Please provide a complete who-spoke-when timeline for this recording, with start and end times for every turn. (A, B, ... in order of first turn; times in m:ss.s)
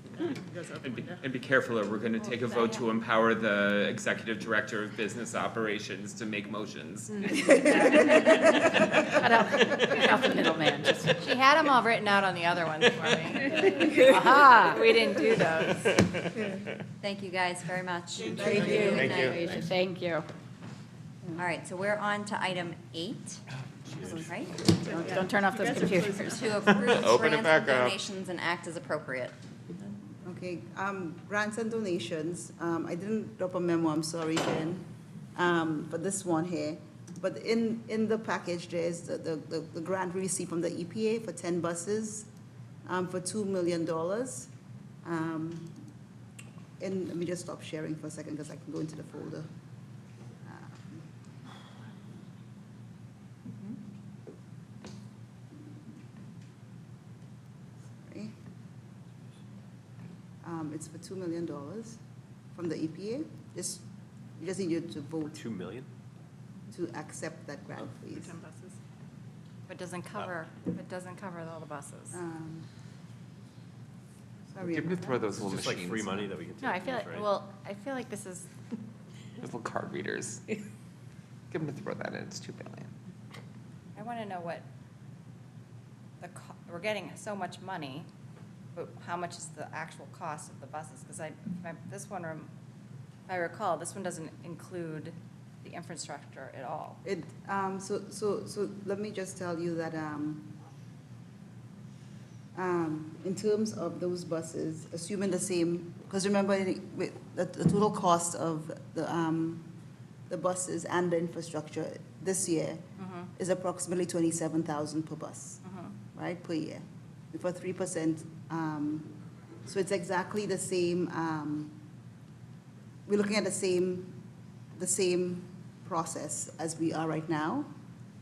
0:00.8-0:07.5 A
0:02.5-0:02.8 B
0:07.5-0:08.6 C
0:07.9-0:11.2 D
0:11.2-0:15.9 E
0:14.0-0:14.8 D
0:15.8-0:16.5 A
0:17.0-0:19.6 B
0:18.2-0:19.1 C
0:18.5-0:20.3 D
0:18.9-0:19.4 A
0:21.4-0:23.4 B
0:23.9-0:24.3 F
0:24.1-0:25.3 C
0:24.2-0:24.6 B
0:24.9-0:26.4 D
0:26.0-0:29.4 B
0:26.8-0:28.0 A
0:30.2-0:42.3 C
0:42.9-0:44.5 C
0:45.0-0:45.8 C
0:46.8-0:49.5 C
0:50.5-0:51.0 C
0:58.1-0:58.3 C
1:00.4-1:02.0 C
1:02.6-1:03.8 C
1:04.4-1:05.5 C
1:05.3-1:05.9 F
1:06.7-1:08.4 C
1:09.7-1:12.2 E
1:12.1-1:12.7 C
1:14.5-1:15.3 C
1:14.6-1:16.3 A
1:15.4-1:17.3 F
1:16.6-1:18.5 E
1:19.4-1:20.4 A
1:21.5-1:22.9 A
1:24.0-1:24.7 E
1:26.2-1:28.1 E
1:28.8-1:32.5 E
1:33.3-1:37.0 E
1:37.0-1:40.5 C
1:42.6-1:49.7 C
1:50.3-1:52.8 C
1:53.0-1:53.3 E
1:53.4-1:55.6 C
1:55.6-1:56.0 E
1:56.1-1:59.2 C
1:59.7-2:01.8 C
2:03.1-2:04.2 C
2:04.8-2:07.7 C